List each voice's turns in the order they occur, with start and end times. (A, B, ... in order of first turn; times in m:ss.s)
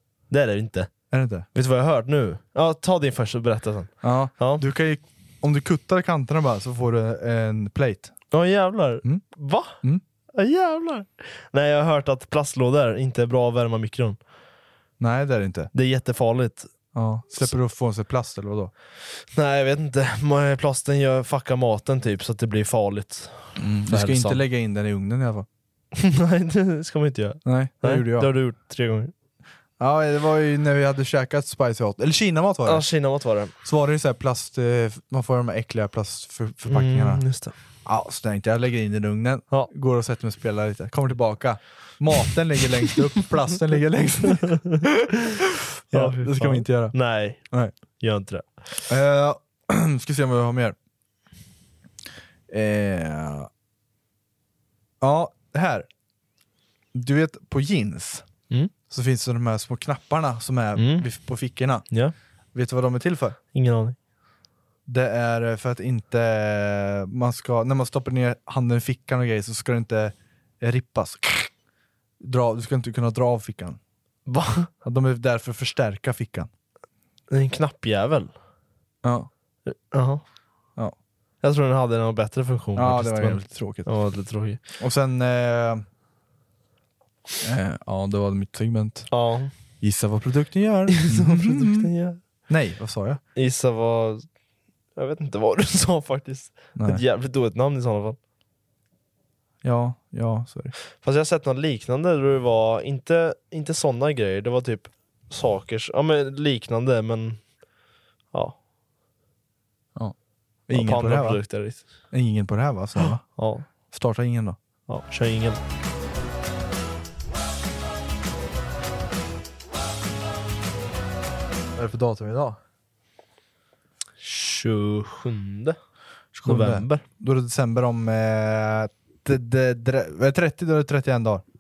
0:00.3-0:01.0 A
0:01.1-0:01.5 B
0:01.5-0:04.6 A
0:04.0-0:08.1 B
0:08.3-0:09.8 A
0:10.4-0:14.2 A
0:15.0-0:15.7 B
0:15.7-0:16.7 A
0:16.9-0:18.7 B
0:19.3-0:24.4 A
0:23.6-0:25.5 B
0:25.9-0:29.1 A
0:27.4-0:28.3 B
0:29.8-0:32.9 B
0:32.7-0:33.5 A
0:33.6-0:37.2 B
0:36.7-0:37.5 A
0:37.8-0:45.1 B
0:44.3-0:44.6 A
0:45.9-0:47.0 B
0:45.9-0:47.4 A
0:48.0-0:48.6 A
0:48.9-0:50.8 B
0:52.5-0:53.5 B
0:55.0-0:55.9 B
0:56.9-0:58.3 B
0:58.9-1:01.8 B
1:00.8-1:01.1 A
1:02.6-1:03.4 B
1:03.5-1:04.0 A
1:04.9-1:11.5 B
1:12.2-1:13.8 B
1:14.3-1:14.7 A
1:14.8-1:16.5 B
1:17.3-1:18.3 A
1:19.0-1:19.3 B
1:19.7-1:20.2 A
1:21.4-1:24.6 A
1:22.8-1:23.9 B
1:24.8-1:25.8 B
1:27.4-1:29.1 B
1:29.1-1:29.5 A
1:29.8-1:31.9 B
1:31.0-1:32.2 A
1:32.5-1:33.2 B
1:33.4-1:34.2 A
1:35.0-1:38.2 A
1:36.8-1:37.0 B
1:39.6-1:40.7 B
1:41.0-1:47.4 A
1:50.7-1:51.4 B
1:50.7-1:51.8 A
1:52.1-1:53.2 B
1:53.0-1:53.7 A
1:53.9-1:54.6 B
1:54.9-1:55.6 A
2:01.8-2:02.6 B
2:04.2-2:05.8 A
2:06.3-2:11.4 B
2:06.4-2:07.0 A